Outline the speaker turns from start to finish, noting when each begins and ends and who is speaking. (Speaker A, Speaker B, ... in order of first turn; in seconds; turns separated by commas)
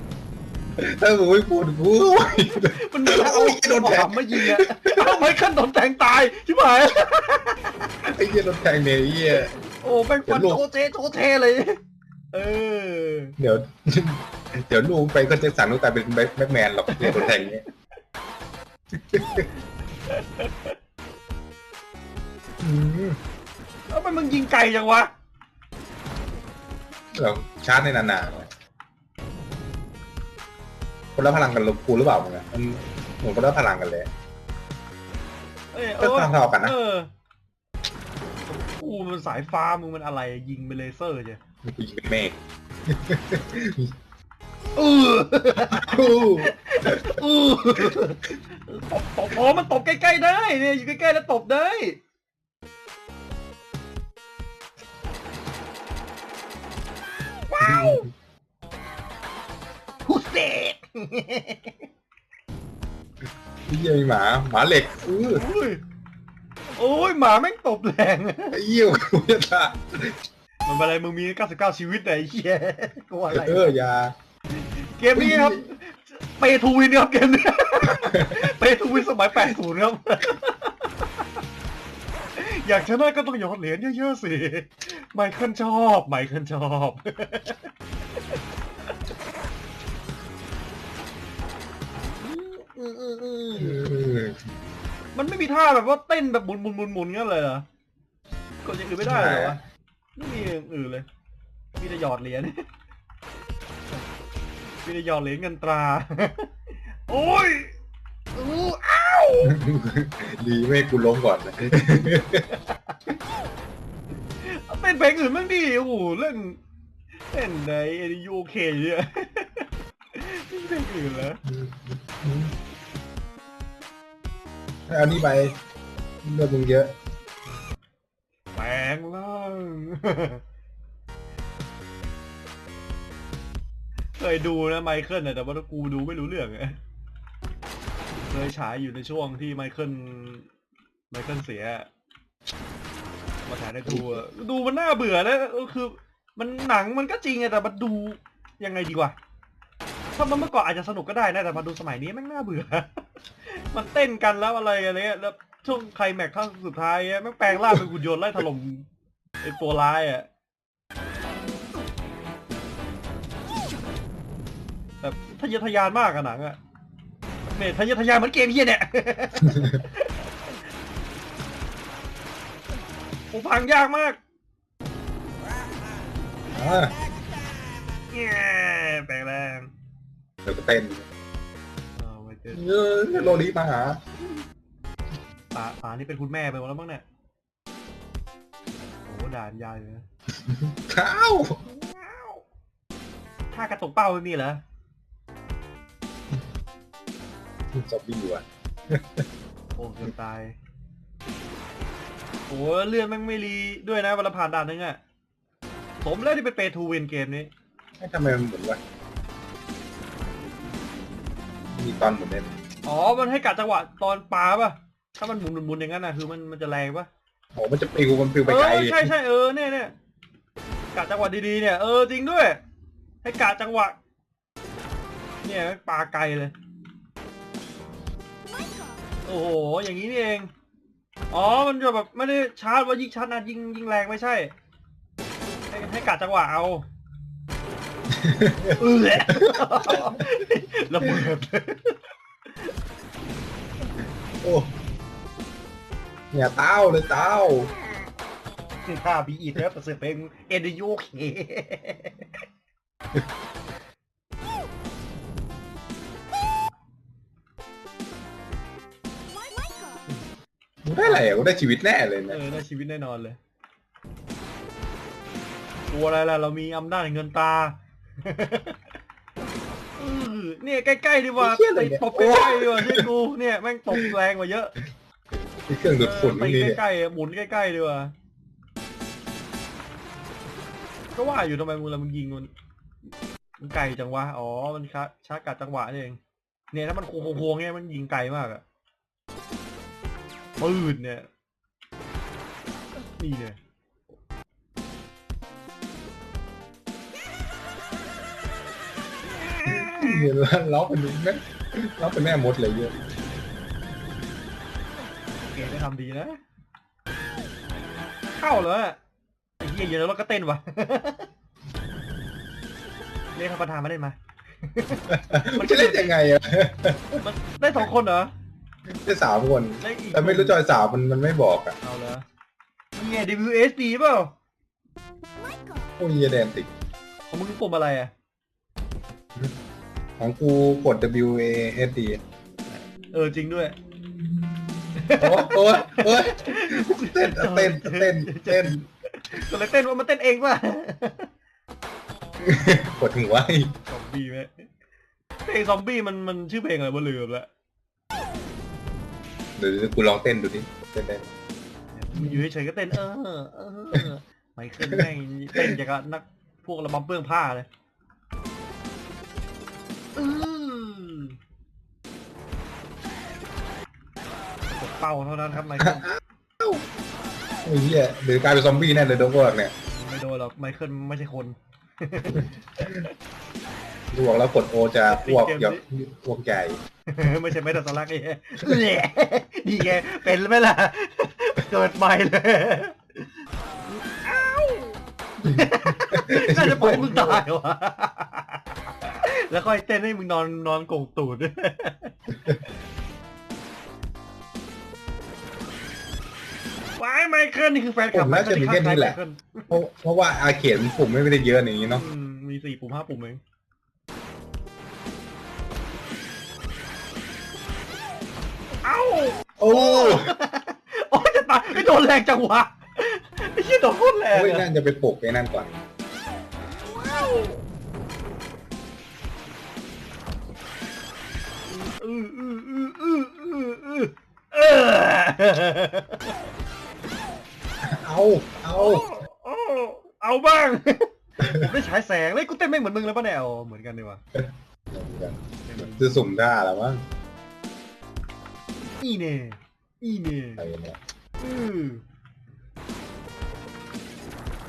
Speaker A: 0.8-5.2, Speaker B: 2.5-8.1, Speaker A: 8.1-9.5, Speaker B: 9.8-11.8, Speaker A: 10.3-10.6, Speaker B: 12.3-13.3, Speaker A: 13.4-17.6, Speaker B: 16.9-17.6, Speaker A: 18.9-19.5, Speaker B: 20.1-20.8, Speaker A: 22.6-23.2, Speaker B: 23.9-25.1, Speaker A: 27.1-28.5, Speaker A: 31.1-34.1, Speaker B: 35.7-37.1, Speaker A: 36.0-36.8, Speaker B: 38.5-41.4, Speaker A: 41.6-43.9, Speaker B: 44.8-52.0, Speaker A: 45.6-47.2, Speaker B: 57.5-58.1, Speaker A: 57.6-58.0, Speaker B: 60.1-61.9, Speaker A: 63.7-65.5, Speaker B: 65.2-65.8, Speaker B: 66.8-68.6, Speaker A: 68.5-70.2, Speaker B: 70.7-73.7, Speaker A: 73.3-74.1, Speaker B: 74.5-81.3, Speaker A: 75.1-75.7, Speaker A: 77.8-78.5, Speaker B: 82.3-88.4, Speaker B: 92.2-94.0, Speaker A: 93.6-94.4, Speaker B: 95.2-97.7, Speaker B: 98.6-99.6, Speaker A: 99.0-99.6, Speaker B: 100.2-101.1, Speaker B: 101.8-102.7, Speaker B: 104.8-106.5, Speaker B: 107.1-107.8, Speaker B: 108.3-109.6, Speaker A: 109.4-112.5, Speaker B: 112.5-113.0, Speaker B: 114.4-116.6, Speaker B: 117.3-121.4, Speaker A: 121.5-122.5, Speaker A: 124.9-125.6, Speaker A: 126.2-127.0, Speaker B: 128.5-130.4, Speaker B: 134.2-136.8, Speaker B: 138.2-140.5, Speaker B: 141.1-141.9, Speaker B: 143.5-149.2, Speaker A: 143.9-144.2, Speaker B: 150.1-158.9, Speaker B: 159.4-160.3, Speaker B: 165.0-166.6, Speaker B: 167.5-170.3, Speaker A: 169.4-169.8, Speaker B: 173.3-174.2, Speaker A: 176.5-176.9, Speaker B: 178.1-179.7, Speaker A: 180.4-181.1, Speaker B: 182.0-183.5, Speaker A: 182.5-184.0, Speaker B: 185.5-187.0, Speaker B: 189.1-190.0, Speaker A: 190.4-191.6, Speaker B: 191.7-192.4, Speaker B: 193.5-194.6, Speaker A: 197.7-199.3, Speaker B: 199.8-200.6, Speaker B: 202.5-205.0, Speaker B: 206.0-207.5, Speaker A: 208.0-208.8, Speaker A: 211.7-212.5, Speaker B: 212.8-217.1, Speaker A: 217.6-219.1, Speaker B: 218.4-219.9, Speaker B: 220.9-222.6, Speaker B: 223.2-224.0, Speaker B: 225.4-226.5, Speaker B: 229.3-230.5, Speaker B: 231.3-234.5, Speaker B: 235.7-236.8, Speaker A: 238.1-240.2, Speaker B: 238.8-242.0, Speaker A: 244.4-244.7, Speaker A: 246.3-247.7, Speaker B: 248.8-252.4, Speaker A: 260.9-262.4, Speaker B: 261.0-261.3, Speaker B: 262.3-263.4, Speaker B: 265.9-268.8, Speaker B: 270.0-274.7, Speaker A: 271.4-273.1, Speaker A: 275.6-276.8, Speaker B: 275.9-278.1, Speaker B: 281.2-282.5, Speaker B: 283.6-286.2, Speaker B: 286.7-288.6, Speaker B: 290.6-291.3, Speaker B: 293.2-293.6, Speaker B: 299.3-300.3, Speaker A: 299.6-302.9, Speaker B: 305.4-306.4, Speaker B: 308.3-309.0, Speaker B: 309.6-311.3, Speaker B: 313.4-316.1, Speaker A: 315.1-317.2, Speaker B: 317.1-318.3, Speaker A: 318.9-321.8, Speaker B: 319.8-320.6, Speaker B: 321.8-322.2, Speaker B: 322.9-324.3, Speaker A: 326.0-326.7, Speaker B: 327.3-328.1, Speaker A: 330.2-332.2, Speaker B: 332.7-333.8, Speaker A: 334.3-338.8, Speaker B: 334.9-341.3, Speaker A: 342.4-343.7, Speaker B: 343.9-344.7, Speaker B: 345.5-347.5, Speaker A: 349.6-351.3, Speaker B: 351.9-357.7, Speaker A: 352.1-352.4, Speaker A: 354.8-355.7, Speaker B: 360.2-361.4, Speaker B: 364.7-366.1, Speaker A: 365.8-366.8, Speaker A: 367.6-369.7, Speaker B: 369.9-373.1, Speaker A: 374.1-376.8, Speaker B: 375.1-375.8, Speaker B: 377.1-383.2, Speaker B: 384.2-392.5, Speaker A: 385.4-387.4, Speaker B: 397.0-399.8, Speaker A: 398.1-399.2, Speaker A: 399.7-402.1, Speaker B: 401.9-403.4, Speaker B: 408.9-414.7, Speaker A: 409.6-410.4, Speaker A: 414.3-415.7, Speaker B: 416.8-417.6, Speaker B: 421.7-426.4, Speaker A: 427.8-429.1, Speaker B: 428.7-434.2, Speaker A: 434.4-437.1, Speaker B: 435.7-436.2, Speaker B: 438.9-440.7, Speaker A: 440.6-441.0, Speaker B: 441.4-442.0